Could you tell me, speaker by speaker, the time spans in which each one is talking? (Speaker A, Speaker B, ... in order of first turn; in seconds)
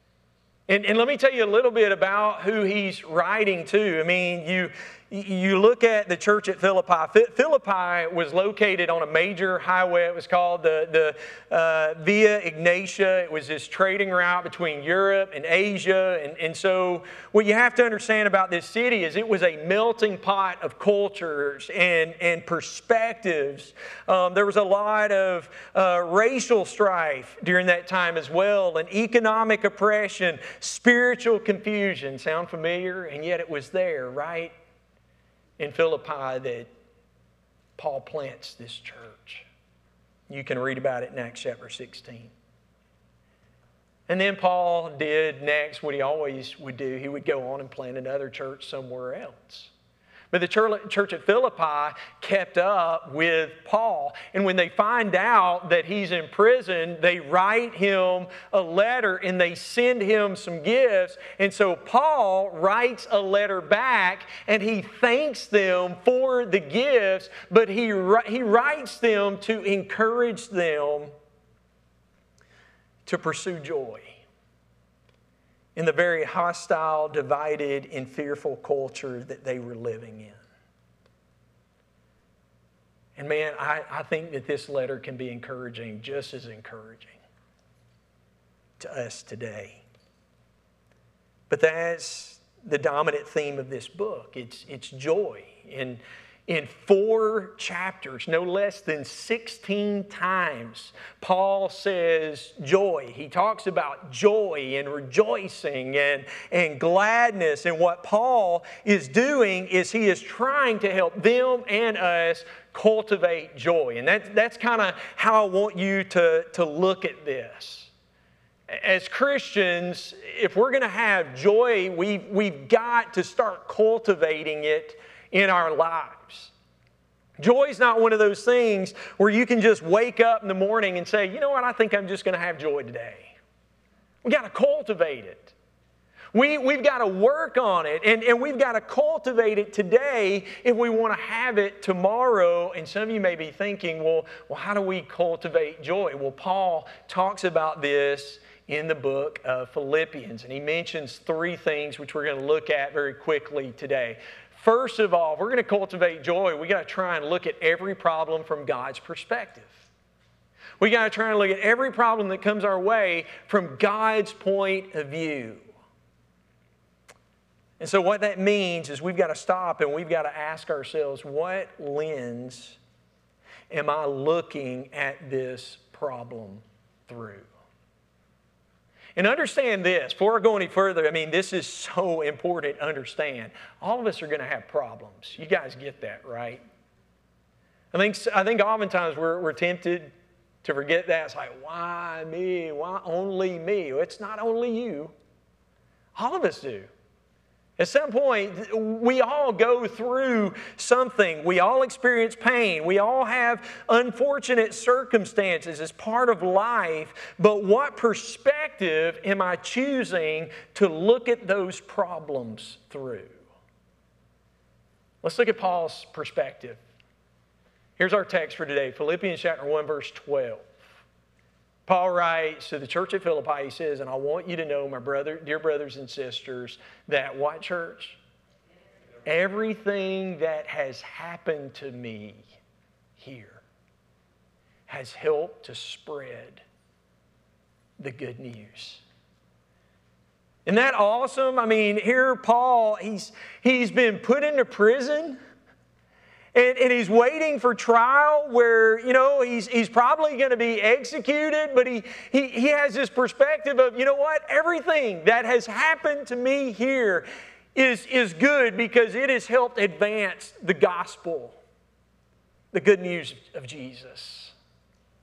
Speaker A: 0.7-34.5, 35.6-36.7, 37.8-39.5, 40.3-42.3, 44.1-49.7, 50.3-71.1, 73.0-74.2, 75.8-80.4, 83.2-87.2, 88.8-89.8, 91.5-117.9, 118.7-126.5, 127.4-133.3, 134.2-135.5, 136.3-159.8, 160.8-165.7, 167.8-172.8, 173.7-177.5, 179.2-186.6, 187.9-190.1, 190.6-195.1, 196.2-196.9, 197.8-213.4, 215.2-216.8, 218.0-220.8, 221.8-228.2, 229.2-232.5, 233.2-233.6, 234.9-236.6, 238.0-239.0, 240.7-245.4, 246.5-261.6, 262.7-264.5